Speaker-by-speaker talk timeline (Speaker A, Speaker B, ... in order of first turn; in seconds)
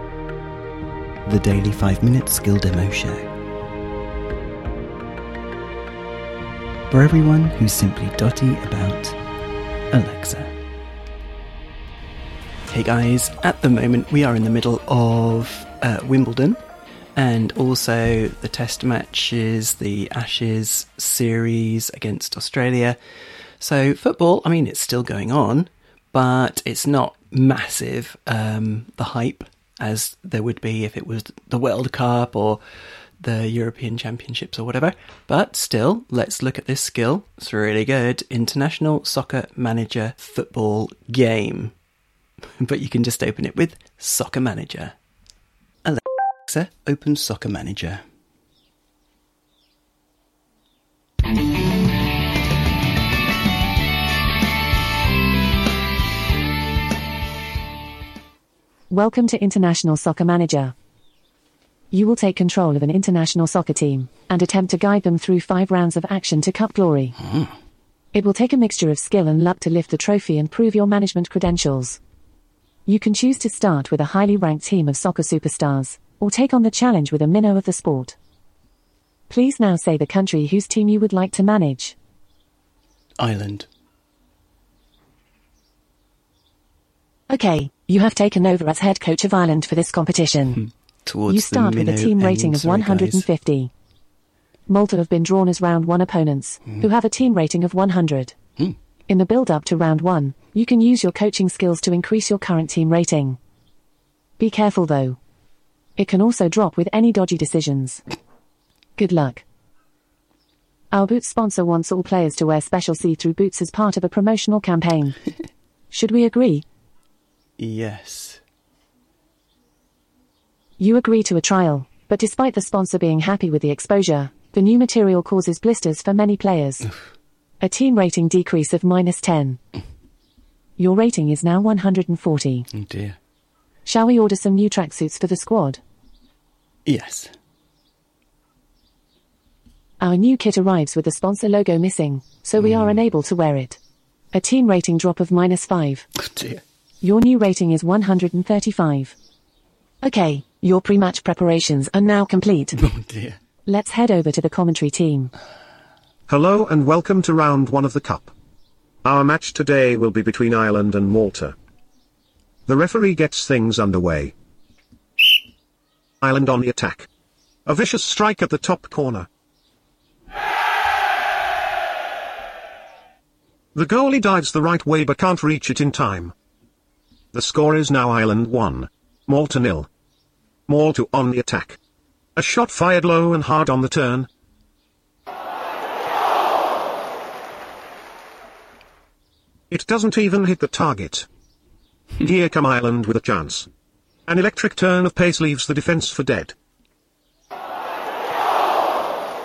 Speaker A: 1.2-3.3, 6.9-9.2, 9.9-10.6, 12.7-16.6, 17.1-23.0, 23.6-32.6, 33.2-41.7, 42.6-44.9, 45.8-48.0, 83.2-83.7, 90.6-93.2, 117.6-118.4, 132.7-133.2, 136.8-137.3, 142.6-143.0, 146.2-146.6, 152.8-153.4
Speaker B: 58.9-60.7, 61.9-67.2, 68.1-72.0, 72.9-78.2, 79.3-81.9, 87.3-90.6, 91.3-93.7, 94.7-98.3, 99.1-103.4, 104.4-105.2, 106.0-108.0, 109.0-109.4, 110.9-115.2, 115.9-116.6, 120.8-126.9, 127.6-129.6, 130.8-132.7, 133.8-135.8, 140.0-143.8, 144.3-146.1, 147.0-149.1, 150.0-152.8, 153.7-155.3
Speaker C: 156.3-158.3, 159.0-161.5, 162.7-164.3, 166.2-167.1, 167.7-169.3, 173.7-176.3, 177.3-179.9, 180.7-181.8, 182.3-184.3, 189.7-191.3, 192.2-193.7, 194.3-196.5